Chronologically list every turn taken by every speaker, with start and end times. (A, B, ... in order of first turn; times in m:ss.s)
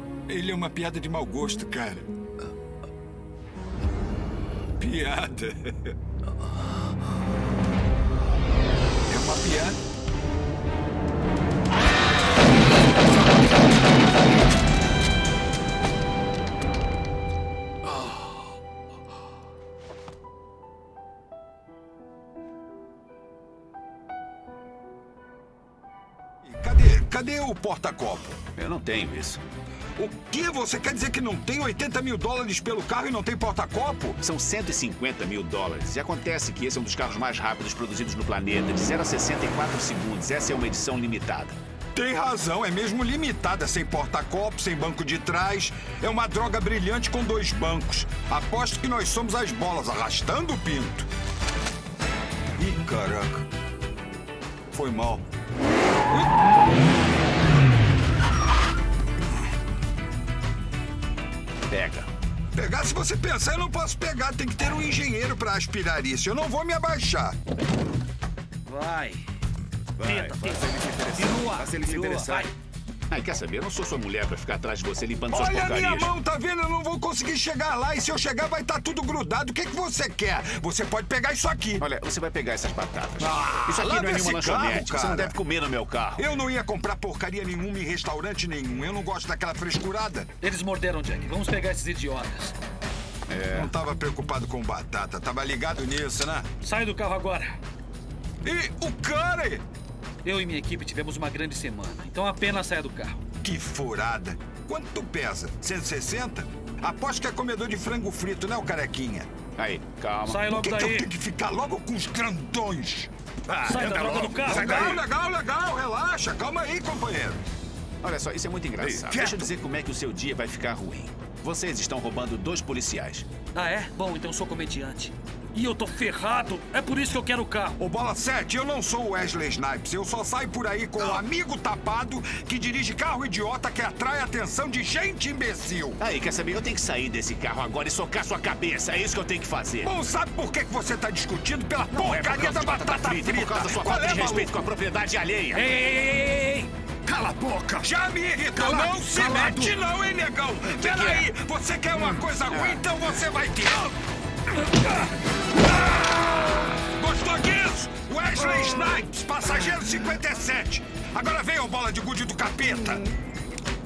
0:00.3-0:02.1 A
0:04.8-0:05.9 A
0:09.1-0:09.8 A
0:26.4-0:28.4 A
0:28.6-0:29.4 B
0:30.0-0:34.2 A
0:34.2-0:41.6 B
0:41.9-0:51.1 A
0:52.6-0:53.5 A
0:54.7-0:55.2 A
1:01.7-1:02.1 B
1:02.5-1:07.4 A
1:08.7-1:09.2 C
1:10.0-1:12.5 B
1:10.0-1:12.5 C
1:13.1-1:16.1 B
1:15.3-1:21.8 A
1:21.8-1:26.2 B
1:23.2-1:25.4 A
1:26.2-1:30.3 A
1:30.4-1:32.6 C
1:33.3-1:33.7 B
1:33.5-1:36.5 A
1:36.6-1:37.6 C
1:38.4-1:39.6 A
1:40.2-1:43.2 C
1:43.4-1:49.3 A
1:49.6-1:50.4 B
1:50.3-1:51.1 C
1:50.5-1:53.1 A
1:53.6-1:55.0 C
1:53.6-1:55.0 B
1:53.6-1:57.4 A
1:58.0-2:03.3 B
1:58.8-1:59.5 A
2:03.5-2:07.8 C
2:07.8-2:16.0 A
2:16.0-2:19.9 B
2:19.8-2:24.5 A
2:21.9-2:25.7 B
2:25.5-2:27.9 C
2:27.8-2:34.0 A
2:28.6-2:29.7 C
2:30.7-2:31.2 B
2:32.0-2:32.8 B
2:36.8-2:43.1 A